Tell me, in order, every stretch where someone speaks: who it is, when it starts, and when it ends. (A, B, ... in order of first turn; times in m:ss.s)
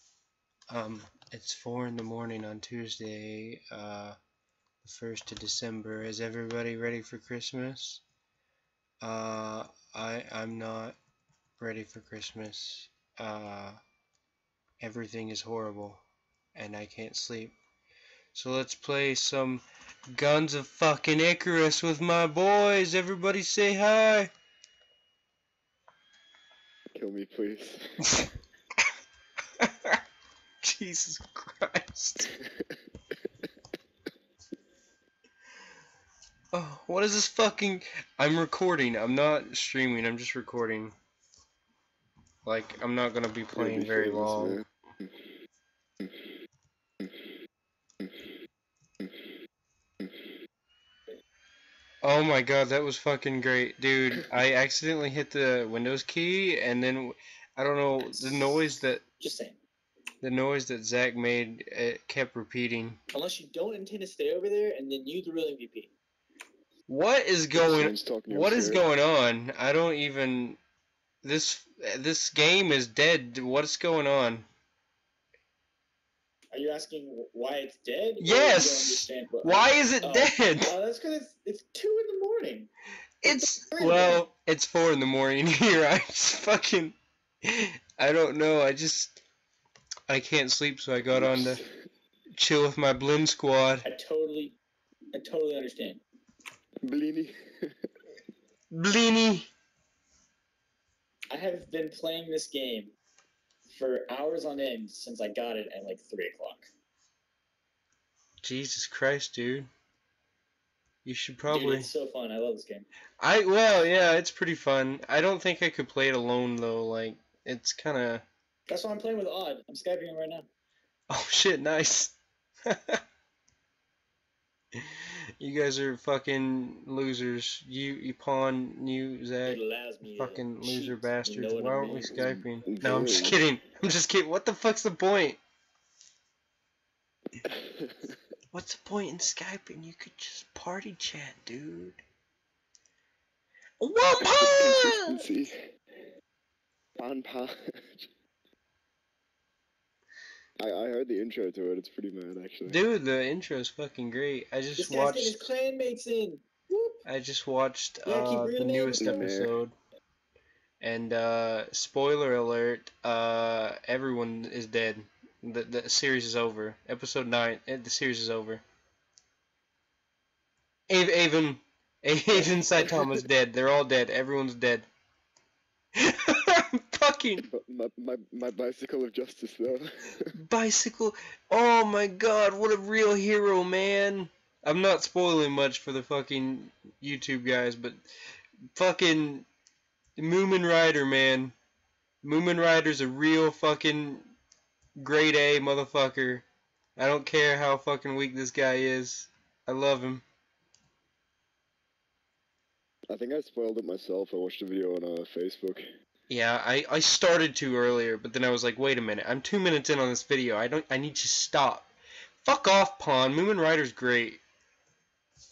0:00.7-0:04.2 A
0:04.8-0:08.0 A
0:09.0-0:11.0 A
0:11.6-0:13.8 A
0:14.8-0:16.0 A
0:16.5-0:17.5 A
0:18.3-0:24.3 A
0:26.9-0:27.8 B
0:28.0-0:28.3 A
0:29.6-0:30.0 A
0:30.6-0:32.3 A
0:32.4-0:32.8 B
0:36.5-0:40.9 A
0:42.4-0:44.6 A
0:43.5-0:45.2 B
0:46.0-0:46.3 B
0:47.0-0:47.3 B
0:48.0-0:48.3 B
0:49.0-0:49.3 B
0:50.0-0:50.3 B
0:52.0-0:59.0 A
0:59.2-0:59.6 C
1:00.2-1:03.0 A
1:03.1-1:05.9 C
1:06.9-1:10.6 A
1:07.6-1:08.8 B
1:11.2-1:14.4 A
1:16.5-1:22.7 C
1:18.2-1:20.7 A
1:23.2-1:29.2 A
1:23.2-1:24.2 C
1:30.1-1:31.6 A
1:31.1-1:31.7 B
1:32.3-1:33.8 A
1:33.8-1:34.6 C
1:35.1-1:36.0 C
1:36.8-1:37.9 B
1:38.7-1:39.5 A
1:41.3-1:42.9 C
1:43.7-1:46.7 C
1:48.4-1:49.7 A
1:51.0-1:51.9 A
1:51.5-1:52.8 C
1:53.2-1:58.2 A
1:58.7-2:00.5 C
2:01.1-2:02.1 A
2:02.6-2:03.0 A
2:05.4-2:09.6 A
2:09.4-2:12.3 C
2:10.1-2:15.4 A
2:12.1-2:13.4 B
2:17.4-2:18.2 B
2:18.5-2:22.0 A
2:23.8-2:25.2 A
2:24.2-2:25.6 B
2:27.0-2:28.1 B
2:30.6-2:32.8 B
2:32.7-2:35.5 A
2:34.8-2:37.0 C
2:37.0-2:39.7 A
2:38.1-2:39.3 C
2:39.0-2:39.5 B
2:40.8-2:48.6 A
2:50.9-2:54.9 A
2:52.8-2:53.2 B
2:56.0-2:57.5 A
2:57.4-3:00.3 B
3:00.3-3:08.0 A
3:08.7-3:09.5 A
3:10.2-3:11.5 A
3:12.2-3:14.3 A
3:15.0-3:16.4 A
3:17.0-3:20.2 A
3:23.1-3:25.9 B
3:26.3-3:31.9 A
3:32.4-3:34.4 A